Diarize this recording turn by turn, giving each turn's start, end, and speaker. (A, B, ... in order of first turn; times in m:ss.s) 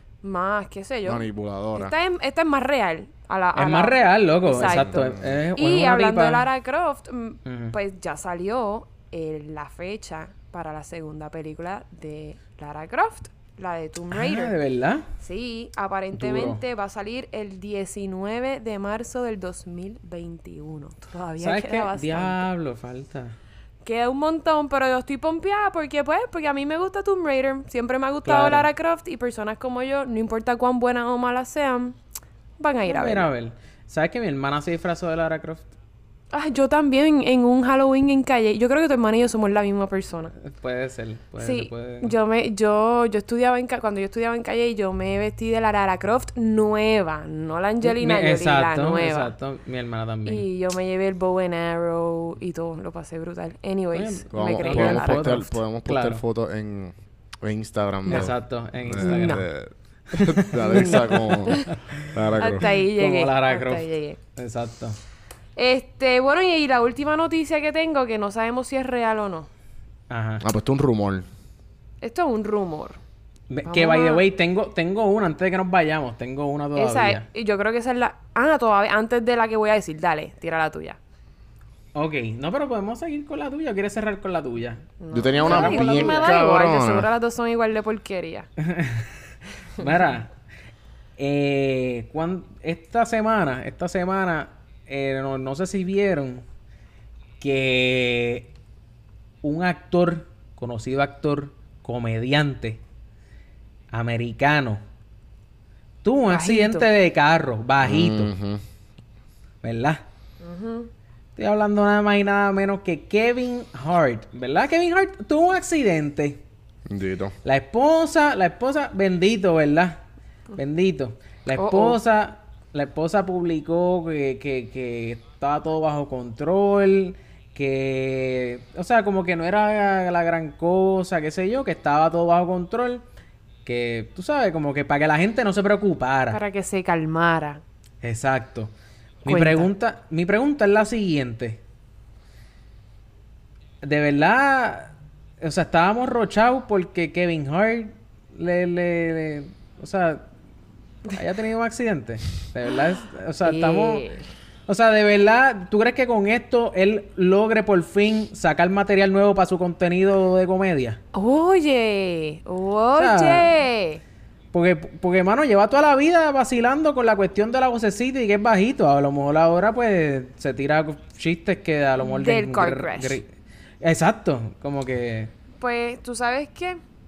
0:00.2-0:14.5 A
0:01.0-0:01.9 B
0:03.6-0:06.5 C
0:04.7-0:05.4 B
0:07.5-0:07.7 C
0:14.1-0:15.1 C
0:15.2-0:22.5 A
0:16.1-0:16.6 C
0:21.4-0:23.4 C
0:23.8-0:32.0 A
0:28.3-0:28.7 C
0:32.6-0:33.3 A
0:32.8-0:35.7 C
0:36.3-0:40.3 A
0:40.4-0:42.2 C
0:41.4-0:49.3 A
0:47.8-0:50.4 C
0:50.3-0:55.6 A
0:53.9-0:56.2 C
0:54.3-1:02.7 B
0:58.1-0:59.5 C
0:59.0-0:59.4 A
1:00.1-1:05.0 C
1:02.4-1:04.2 A
1:05.6-1:09.5 A
1:10.1-1:10.5 C
1:10.4-1:11.3 B
1:12.0-1:13.0 A
1:13.5-1:17.3 C
1:13.6-1:14.2 A
1:16.8-1:21.0 A
1:22.0-1:26.4 C
1:25.0-1:28.5 A
1:25.1-1:27.1 B
1:28.6-1:29.1 C
1:29.8-1:30.3 C
1:31.2-1:36.4 C
1:37.4-1:38.5 C
1:39.4-1:42.8 C
1:43.9-1:44.8 C
1:46.0-1:48.3 C
1:46.3-1:46.9 A
1:47.8-1:48.6 B
1:49.6-1:50.0 C
1:50.4-1:50.9 A
1:51.4-1:56.4 C
1:56.9-1:57.4 B
1:57.4-2:00.0 C
2:00.6-2:13.0 C
2:01.5-2:02.0 A
2:13.7-2:16.4 C
2:16.3-2:17.6 A
2:18.0-2:18.7 C
2:19.2-2:21.6 C
2:19.3-2:19.7 A
2:23.8-2:30.3 C
2:31.1-2:34.1 C
2:33.4-2:34.2 A
2:34.7-2:41.0 C
2:41.1-2:44.0 A
2:43.0-2:43.5 C
2:44.5-2:53.3 C
2:52.0-2:53.2 A
2:53.8-2:55.3 C
2:55.6-2:56.8 A